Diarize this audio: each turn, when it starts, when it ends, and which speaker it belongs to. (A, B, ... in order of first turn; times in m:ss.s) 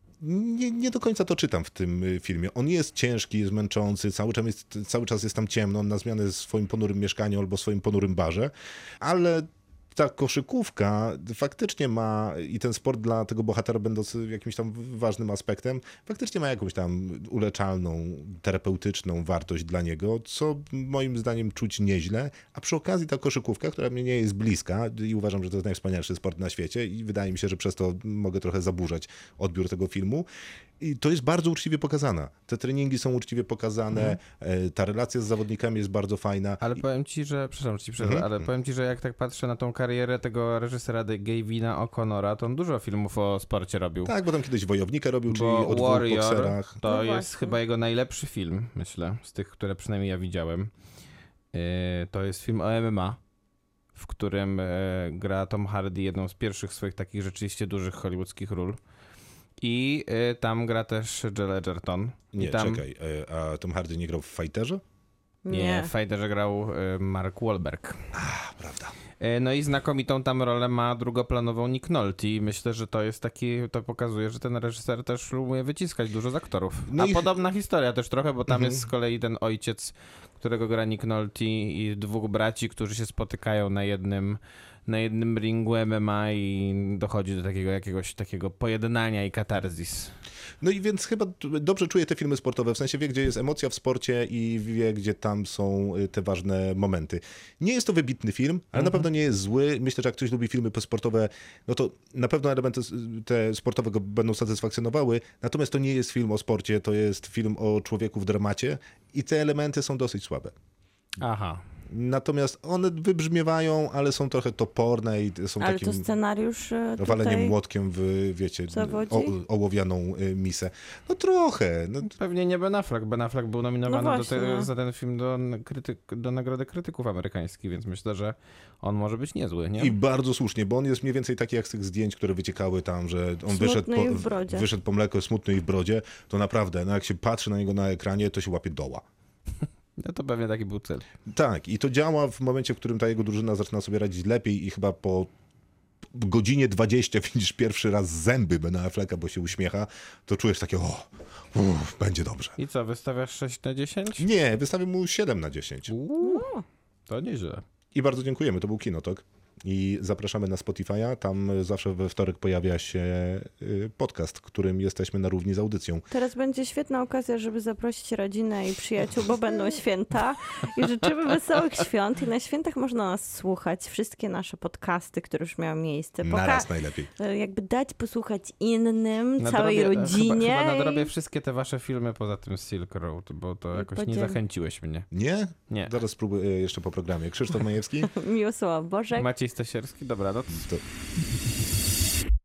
0:00.2-0:30.3 A
0:30.8-0:36.8 A
0:36.6-0:44.1 B
0:38.0-0:38.4 A
0:44.1-0:46.8 A
0:45.3-0:50.7 B
0:46.9-0:47.6 C
0:51.5-0:53.2 B
0:54.0-0:58.8 B
0:59.6-1:02.8 B
1:02.3-1:04.8 A
1:05.4-1:05.9 C
1:05.5-1:08.1 B
1:08.1-1:08.9 A
1:09.2-1:30.1 B
1:16.9-1:17.3 A
1:18.5-1:18.9 A
1:30.6-1:50.5 A
1:51.2-1:51.6 B
1:51.9-1:56.1 A
1:55.6-1:57.5 C
1:57.0-2:02.1 A
1:58.7-1:59.3 C
2:02.0-2:09.9 B
2:03.9-2:04.7 C
2:09.8-2:19.0 A
2:13.5-2:14.7 C
2:20.0-2:21.1 B
2:21.3-2:25.3 A
2:26.1-2:32.6 A
2:32.6-2:34.2 B
2:34.2-2:35.9 A
2:35.9-2:36.5 B
2:36.2-2:36.6 C
2:37.1-2:37.6 B
2:37.9-2:46.0 A
2:46.1-3:01.1 C
2:56.2-2:57.1 A
2:59.4-3:05.1 B
3:03.7-3:04.4 C
3:05.1-3:08.1 A
3:05.7-3:06.0 B
3:08.0-3:09.3 C
3:09.2-3:10.7 B
3:10.5-3:10.8 A